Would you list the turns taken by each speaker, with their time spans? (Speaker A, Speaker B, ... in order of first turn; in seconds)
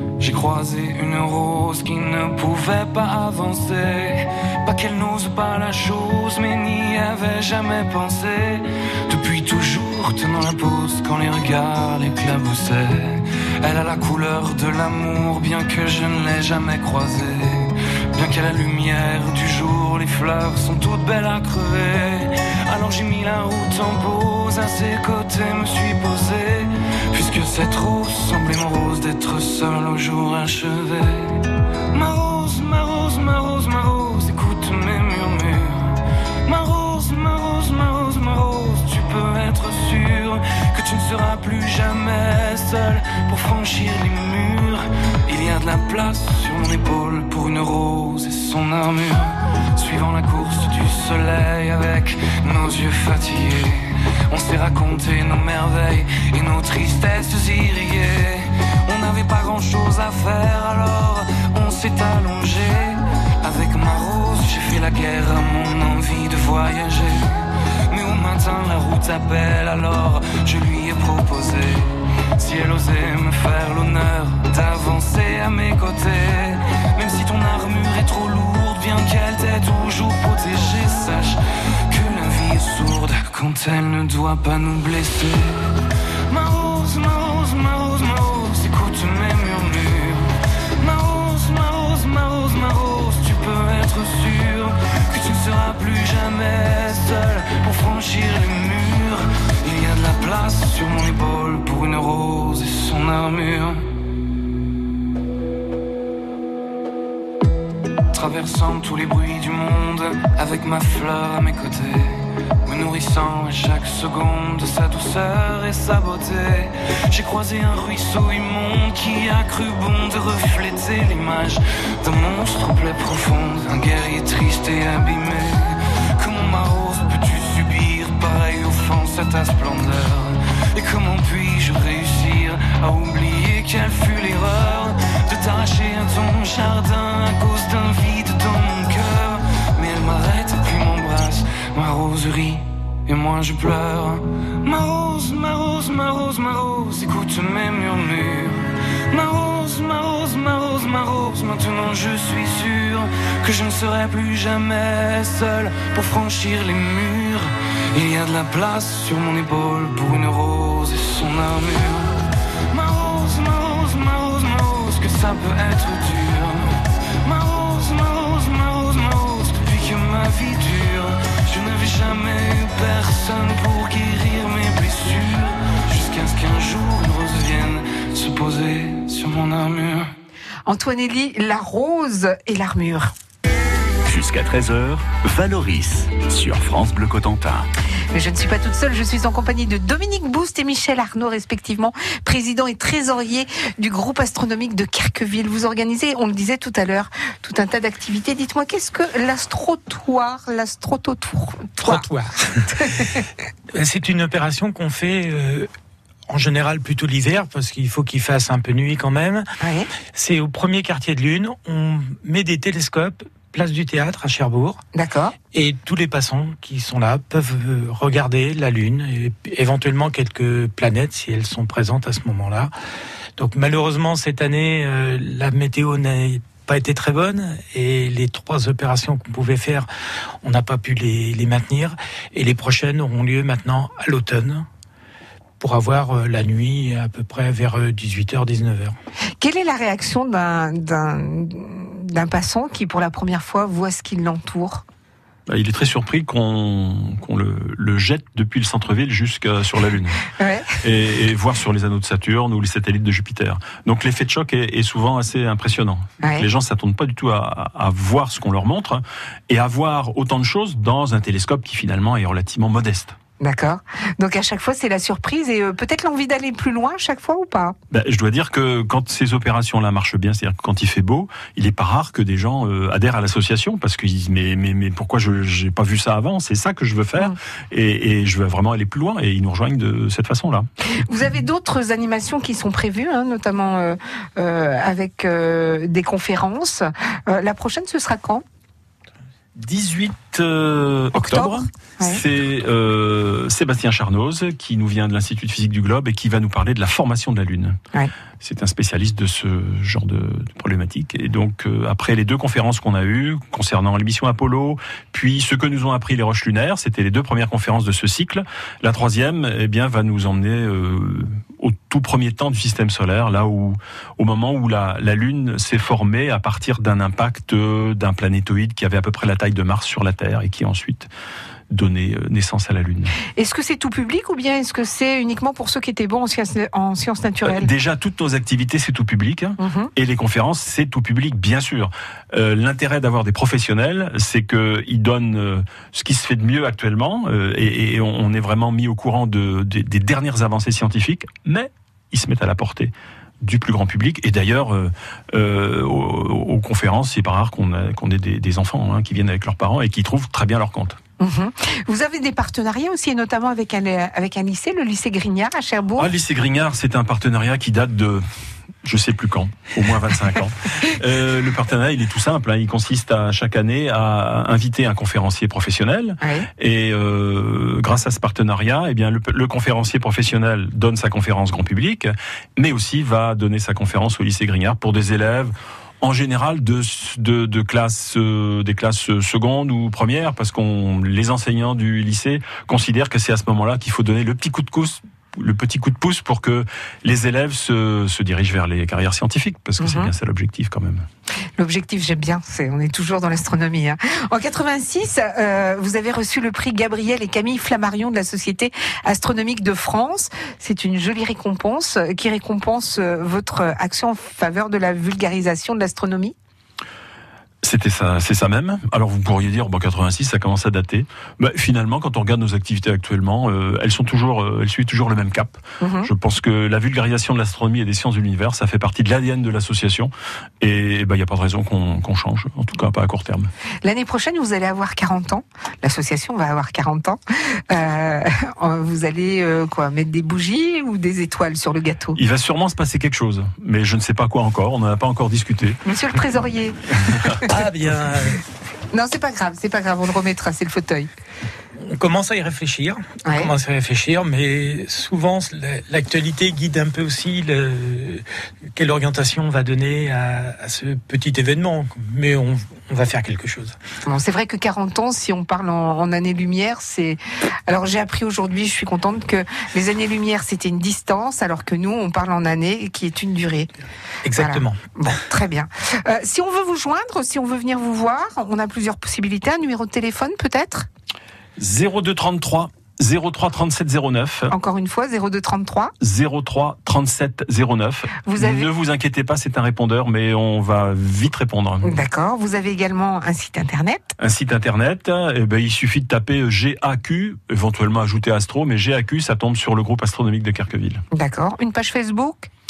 Speaker A: 0.2-103.9, 108.1-162.2, 162.7-180.1
Speaker B: 180.7-183.1, 188.1-202.1, 202.8-203.2, 209.6-209.9, 214.9-215.4, 239.4-244.8, 250.4-250.8, 256.2-256.5, 263.4-267.8, 280.9-288.4, 291.1-292.2, 323.4-327.7, 329.6-329.9, 351.2-356.1, 366.2-366.5, 389.8-390.1, 391.6-406.4, 415.8-416.1, 423.8-432.2, 435.9-437.5, 438.9-441.1, 443.2-443.5, 454.1-463.7, 464.4-470.9, 474.5-475.9, 478.2-478.7, 481.8-484.1, 491.1-492.5
Speaker C: 184.1-187.7
Speaker D: 201.8-203.1, 203.7-205.7, 206.3-209.5, 210.1-214.8, 215.5-222.7, 223.4-229.9, 230.4-234.7, 235.6-239.0, 437.5-438.4, 441.8-453.8, 464.2-464.8
Speaker E: 245.5-250.2, 250.8-263.2, 267.9-280.7, 289.6-297.8, 298.4-321.1, 321.7-323.1, 327.4-351.0, 356.0-358.2, 358.8-391.1, 407.6-423.5, 432.1-435.8, 437.1-437.4, 471.6-474.5, 476.0-482.0, 484.2-491.0